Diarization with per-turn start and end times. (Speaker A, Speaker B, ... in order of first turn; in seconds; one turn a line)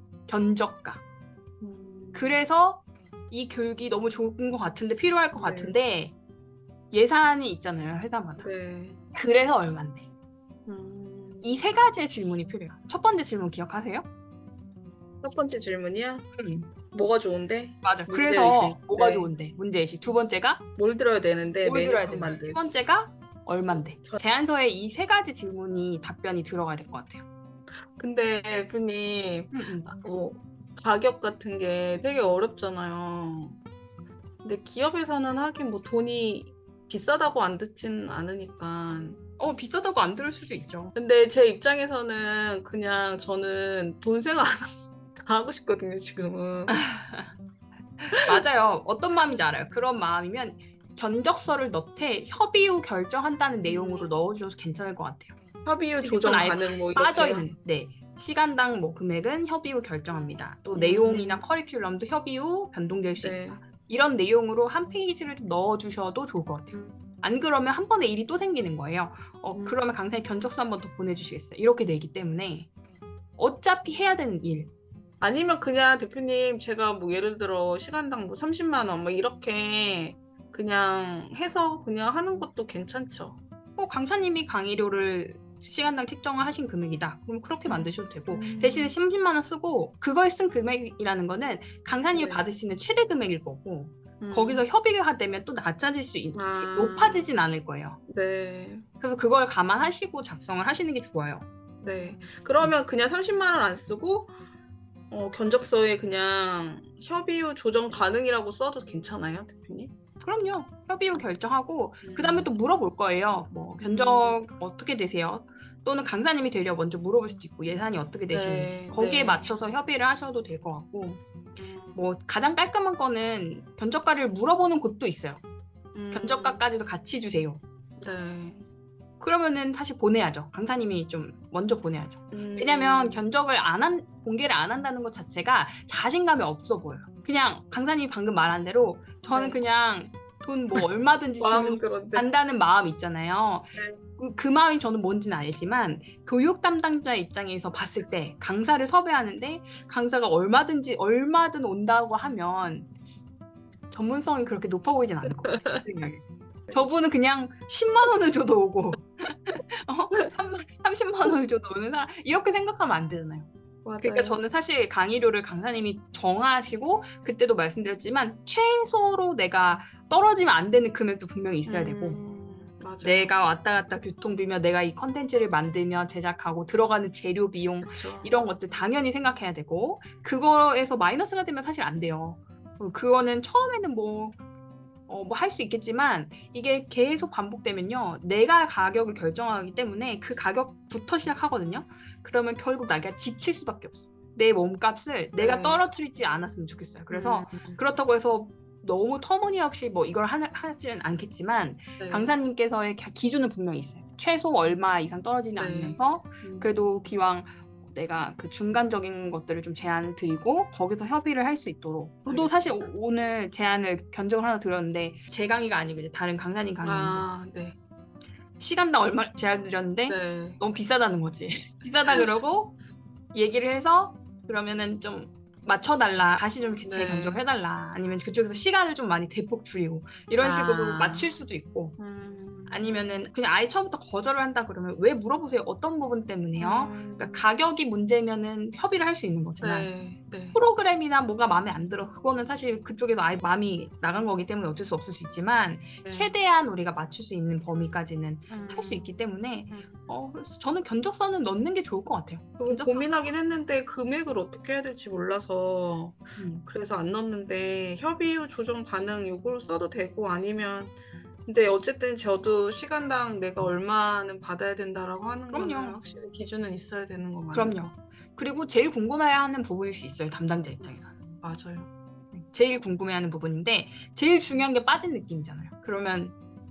Speaker A: 0.3-1.0
Speaker B: 1.6-2.4
Speaker A: 2.1-6.1
Speaker B: 5.3-5.8
Speaker A: 6.9-8.5
Speaker B: 8.4-9.0
Speaker A: 9.2-10.1
Speaker B: 10.7-11.7
Speaker A: 11.4-14.1
Speaker B: 15.2-16.3
Speaker A: 16.4-16.7
Speaker B: 16.9-19.3
Speaker A: 17.8-20.6
Speaker B: 20.8-22.6
Speaker A: 21.6-27.2
Speaker B: 23.7-24.2
Speaker B: 28.0-33.6
Speaker A: 29.5-29.9
Speaker B: 34.4-39.2
Speaker A: 39.4-40.9
Speaker B: 41.0-46.8
Speaker A: 46.7-47.3
Speaker A: 48.0-55.4
Speaker B: 53.6-54.1
Speaker B: 55.6-57.5
Speaker A: 56.0-72.7
Speaker B: 60.8-61.4
Speaker B: 63.2-63.6
Speaker B: 66.7-67.0
Speaker B: 69.5-69.8
Speaker A: 73.4-74.7
Speaker B: 75.2-83.4
Speaker A: 83.8-98.0
Speaker B: 87.7-89.0
Speaker B: 92.1-92.5
Speaker B: 94.2-94.6
Speaker B: 96.3-97.3
Speaker B: 98.1-98.8
Speaker A: 99.0-101.5
Speaker B: 101.8-104.3
Speaker B: 105.1-109.9
Speaker A: 110.2-121.2
Speaker B: 112.0-112.5
Speaker B: 113.8-114.4
Speaker B: 118.3-119.5
Speaker B: 121.6-122.0
Speaker A: 122.0-125.4
Speaker B: 126.0-126.6
Speaker A: 126.1-127.6
Speaker B: 128.0-128.7
Speaker A: 129.2-152.9
Speaker B: 132.3-133.2
Speaker B: 139.3-139.6
Speaker B: 141.4-142.3
Speaker B: 143.8-144.0
Speaker A: 153.9-163.5
Speaker B: 155.2-155.8
Speaker B: 163.8-164.4
Speaker A: 164.0-172.2
Speaker B: 171.7-173.3
Speaker A: 173.0-184.4
Speaker B: 177.8-178.4
Speaker A: 185.1-217.3
Speaker B: 195.4-195.8
Speaker B: 197.1-197.8
Speaker B: 202.0-202.3
Speaker B: 205.5-206.8
Speaker B: 212.3-212.9
Speaker B: 216.8-217.8
Speaker A: 218.6-222.8
Speaker B: 220.1-220.6
Speaker A: 223.3-232.0
Speaker B: 226.8-227.4
Speaker B: 230.4-231.3
Speaker B: 232.0-233.0
Speaker A: 232.7-239.9
Speaker B: 236.6-237.5
Speaker B: 239.6-240.6
Speaker A: 240.5-253.3
Speaker B: 246.0-246.3
Speaker B: 248.5-249.2
Speaker B: 249.7-250.1
Speaker B: 252.6-267.8
Speaker A: 256.4-256.7
Speaker A: 265.5-266.0
Speaker A: 267.5-271.1
Speaker B: 270.8-271.9
Speaker A: 272.3-276.3